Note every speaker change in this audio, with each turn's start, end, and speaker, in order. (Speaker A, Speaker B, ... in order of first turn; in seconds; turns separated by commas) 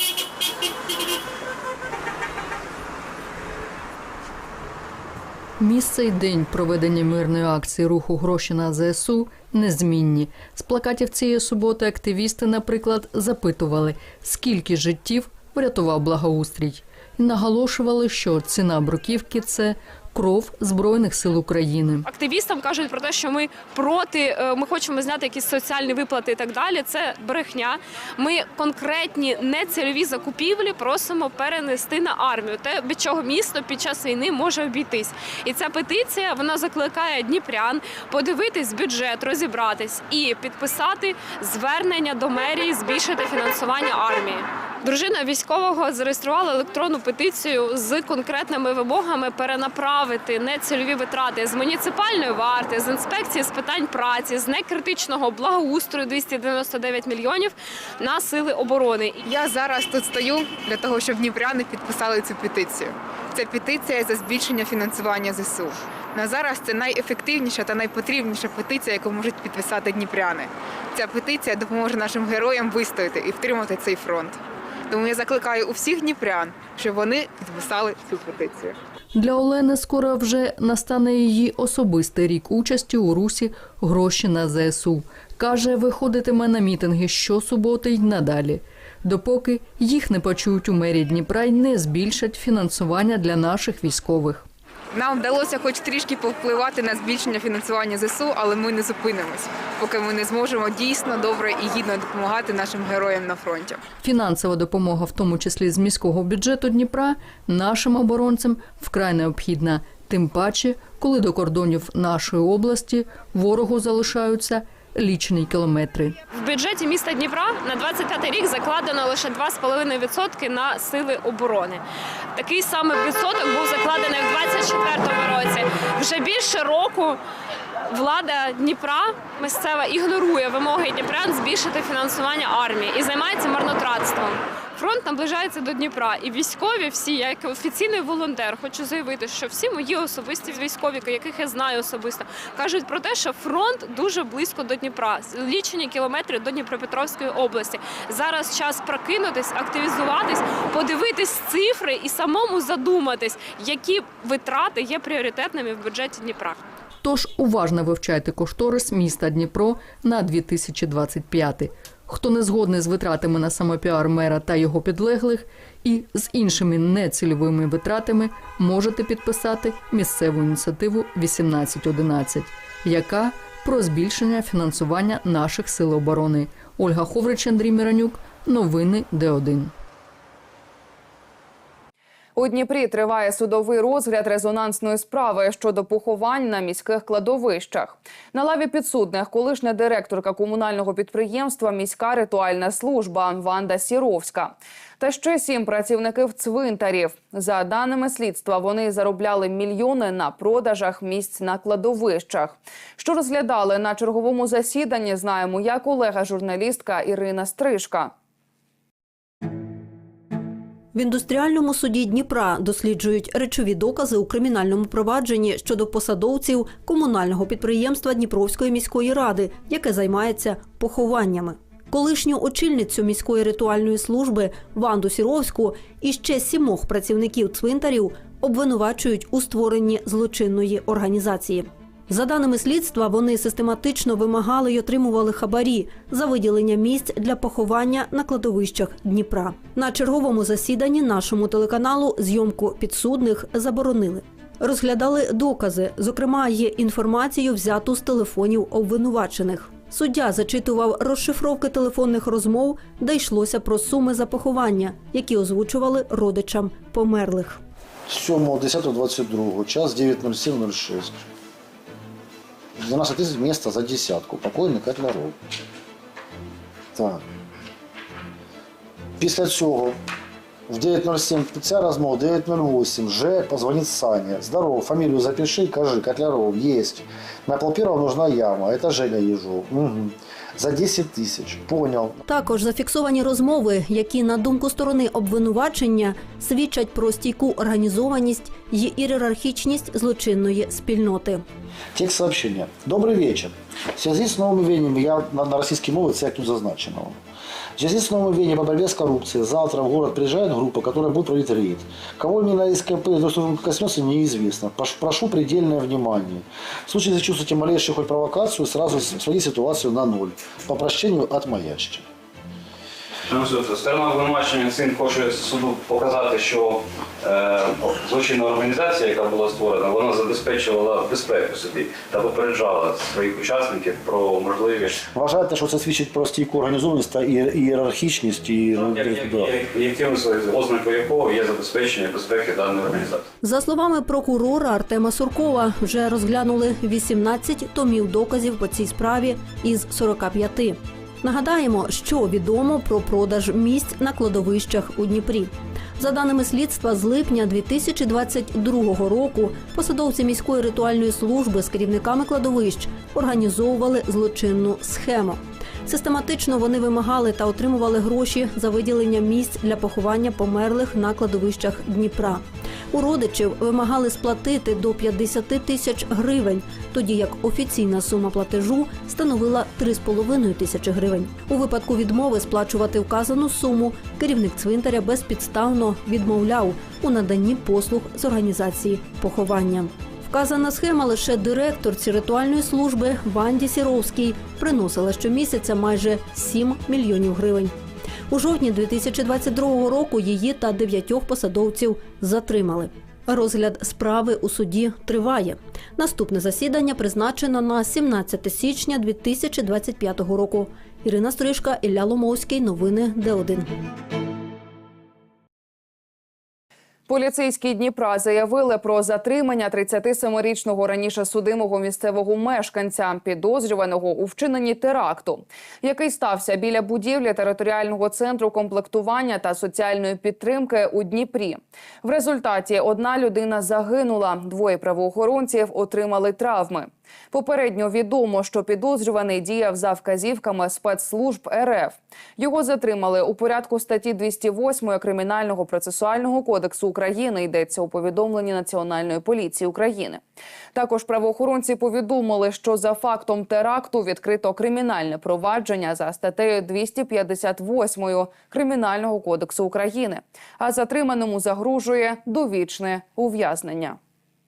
Speaker A: 5.6-22.1, Speaker B: 22.1-59.2, Speaker C: 59.2-74.4, Speaker C: 74.9-78.7, Speaker A: 79.1-94.5, Speaker C: 94.9-103.8, Speaker A: 104.0-116.1, Speaker B: 116.3-121.8, Speaker B: 122.3-127.2, Speaker B: 127.9-156.6, Speaker A: 157.0-179.7, Speaker D: 182.3-208.1, Speaker E: 210.9-257.6, Speaker F: 258.1-261.2, Speaker F: 262.8-265.3, Speaker F: 266.9-267.2, Speaker F: 269.2-269.9, Speaker F: 270.7-282.2, Speaker E: 282.2-291.4, Speaker F: 291.9-297.2, Speaker F: 297.8-312.0, Speaker G: 313.3-325.0, Speaker F: 325.1-329.6, Speaker G: 328.8-333.2, Speaker E: 333.4-387.7, Speaker E: 388.3-403.7, Speaker D: 407.1-440.2, Speaker D: 440.7-454.0